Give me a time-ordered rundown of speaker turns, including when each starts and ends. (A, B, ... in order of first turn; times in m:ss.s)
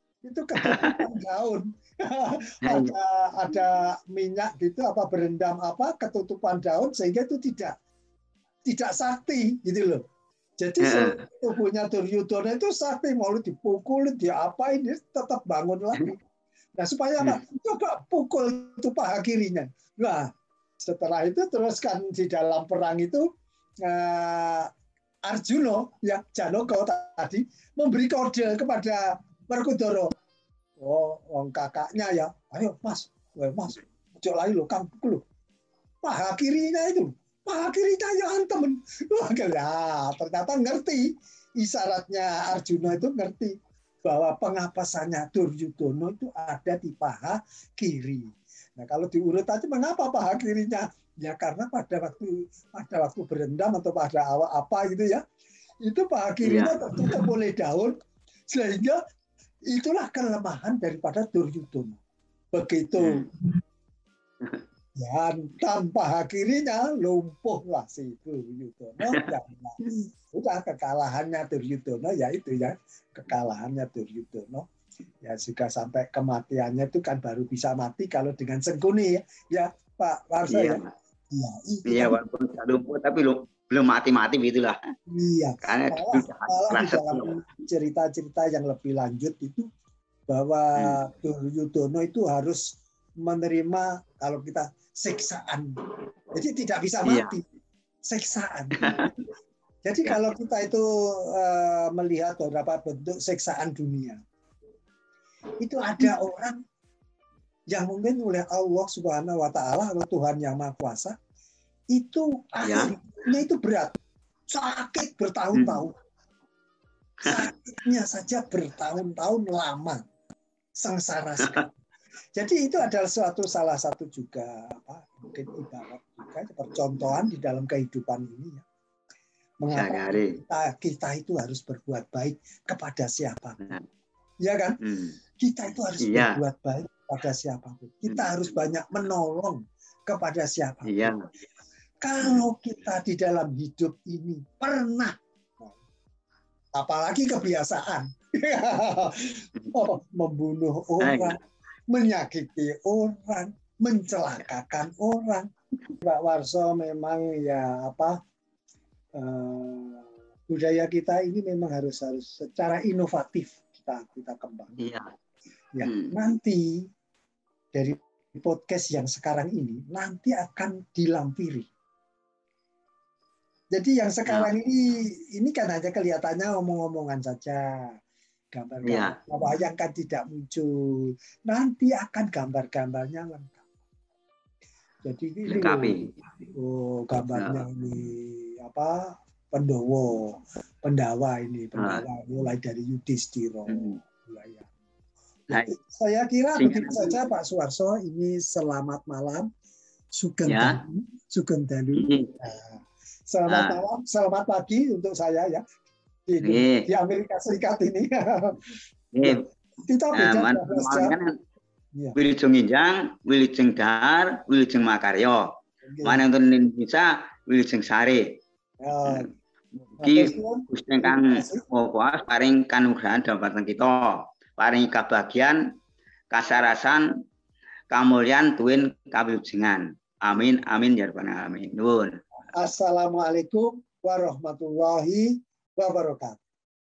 0:00.2-0:07.8 A
0:00.6-0:01.0 B
0:02.6-0:02.9 B
0:08.6-0:10.0 A
0:10.6-0:16.2 A
0:10.8-0:11.2 B
0:16.8-0:23.3 A
0:23.8-0:24.7 A
0:25.3-0:30.1 A
0:30.8-0:35.2 A
0:36.0-0:55.2 A
0:55.8-0:57.9 A
0:56.4-0:57.2 B
0:58.5-0:59.0 A
0:59.7-1:02.0 A
1:02.5-1:03.3 A
1:03.0-1:03.3 B
1:05.0-1:09.8 A
1:10.3-1:14.7 A
1:15.2-1:22.2 A
1:20.5-1:20.9 B
1:21.9-1:24.8 B
1:25.1-1:29.7 A
1:25.6-1:27.4 B
1:30.3-1:35.7 A
1:36.3-1:37.4 A
1:37.0-1:37.4 B
1:38.1-1:39.1 A
1:38.8-1:39.1 B
1:39.8-1:44.2 A
1:45.6-1:46.6 A
1:47.7-1:51.2 A
1:51.9-1:54.0 A
1:52.6-1:52.9 B
1:54.5-1:55.9 A
1:55.5-1:55.9 B
1:57.2-1:57.5 B
1:57.2-2:00.0 A
2:00.8-2:01.7 A
2:02.4-2:08.6 A
2:09.6-2:13.8 A
2:09.7-2:10.4 B
2:14.4-2:14.8 A
2:14.8-2:15.2 B
2:15.4-2:21.1 A
2:16.0-2:16.4 B
2:18.1-2:18.6 B
2:20.9-2:21.2 B
2:22.0-2:25.7 A
2:26.8-2:31.4 A
2:31.0-2:31.4 B
2:31.9-2:35.5 A
2:36.0-2:38.2 A
2:39.2-2:44.8 A
2:44.8-2:45.1 B
2:45.8-2:46.9 A
2:45.8-2:46.1 B
2:47.7-2:51.7 A
2:53.7-2:57.7 A
2:58.5-3:03.6 A
2:58.9-2:59.2 B
3:05.0-3:14.7 A
3:05.5-3:06.1 B
3:07.4-3:07.6 B
3:11.8-3:12.0 B
3:13.7-3:14.0 B
3:15.5-3:19.5 A
3:16.6-3:17.2 B
3:20.1-3:25.6 A
3:20.5-3:20.8 B
3:22.0-3:22.3 B
3:23.5-3:23.8 B
3:26.3-3:28.6 A
3:26.4-3:26.9 B
3:29.1-3:29.4 B
3:29.2-3:31.2 A
3:30.1-3:31.3 B
3:32.2-3:35.5 B
3:35.8-3:36.2 A
3:36.0-3:38.3 B
3:38.8-3:39.3 A
3:40.0-3:45.6 B
3:40.0-3:41.6 A
3:46.3-3:47.1 B
3:47.9-3:52.2 B
3:52.6-3:56.4 A